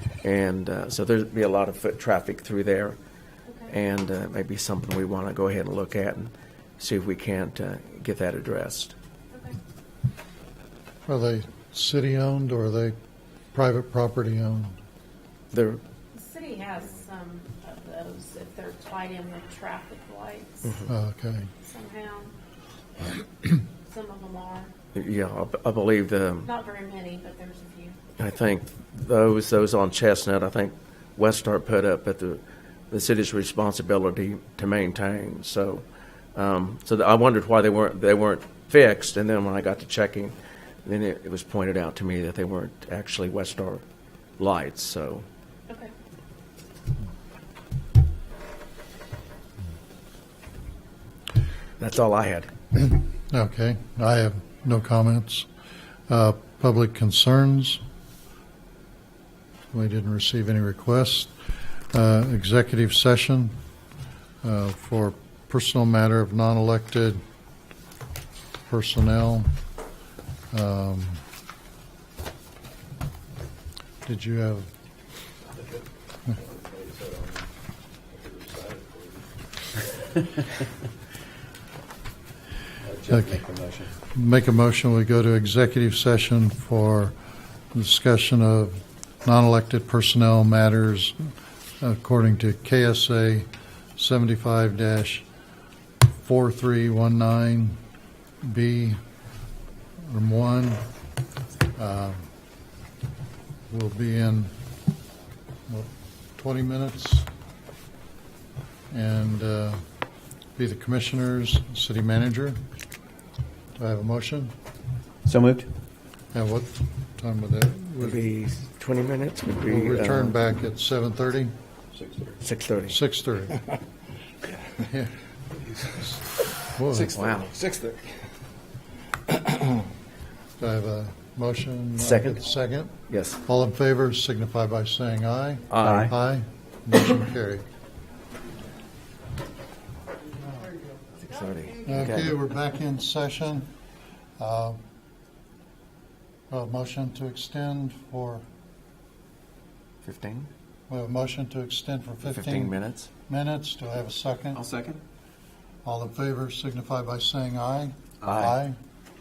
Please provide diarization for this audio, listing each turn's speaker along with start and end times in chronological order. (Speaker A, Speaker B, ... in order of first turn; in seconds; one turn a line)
Speaker A: 0.2-3.0
Speaker B: 3.5-3.7
Speaker A: 3.7-8.9
Speaker B: 9.3-9.6
Speaker C: 11.1-12.9
Speaker C: 13.5-14.8
Speaker A: 15.5-15.8
Speaker B: 16.1-20.8
Speaker A: 20.6-20.9
Speaker C: 20.9-21.5
Speaker B: 21.6-22.3
Speaker B: 23.6-24.7
Speaker A: 24.9-26.5
Speaker B: 26.4-28.0
Speaker A: 28.2-43.8
Speaker A: 44.4-45.3
Speaker A: 51.8-52.5
Speaker C: 52.8-55.5
Speaker C: 56.1-57.8
Speaker C: 59.7-61.3
Speaker C: 61.9-63.5
Speaker C: 64.4-67.2
Speaker C: 68.7-69.5
Speaker C: 70.5-71.2
Speaker C: 74.0-74.7
Speaker D: 76.4-77.4
Speaker D: 78.1-79.3
Speaker D: 82.8-83.9
Speaker C: 83.1-83.4
Speaker C: 84.1-87.2
Speaker C: 87.7-95.2
Speaker C: 96.2-97.8
Speaker C: 98.4-99.0
Speaker C: 100.0-100.8
Speaker C: 101.8-102.3
Speaker C: 103.7-104.5
Speaker C: 105.7-107.3
Speaker C: 108.9-109.8
Speaker C: 110.6-112.6
Speaker C: 113.8-114.5
Speaker D: 115.2-115.7
Speaker C: 116.3-118.2
Speaker A: 118.0-120.4
Speaker C: 119.7-121.5
Speaker D: 122.0-122.4
Speaker A: 122.4-123.0
Speaker C: 122.9-123.6
Speaker C: 124.8-125.1
Speaker C: 126.7-127.2
Speaker D: 126.9-128.2
Speaker A: 127.1-127.5
Speaker C: 130.6-132.9
Speaker A: 132.0-132.4
Speaker A: 133.1-133.4
Speaker C: 133.4-137.7
Speaker A: 135.7-136.1
Speaker A: 141.2-142.3
Speaker C: 141.8-143.7
Speaker C: 144.4-144.8
Speaker C: 146.5-148.4
Speaker A: 150.0-150.5
Speaker C: 150.9-154.6
Speaker A: 152.2-153.1
Speaker D: 154.6-155.0
Speaker C: 155.8-158.8
Speaker A: 158.2-158.6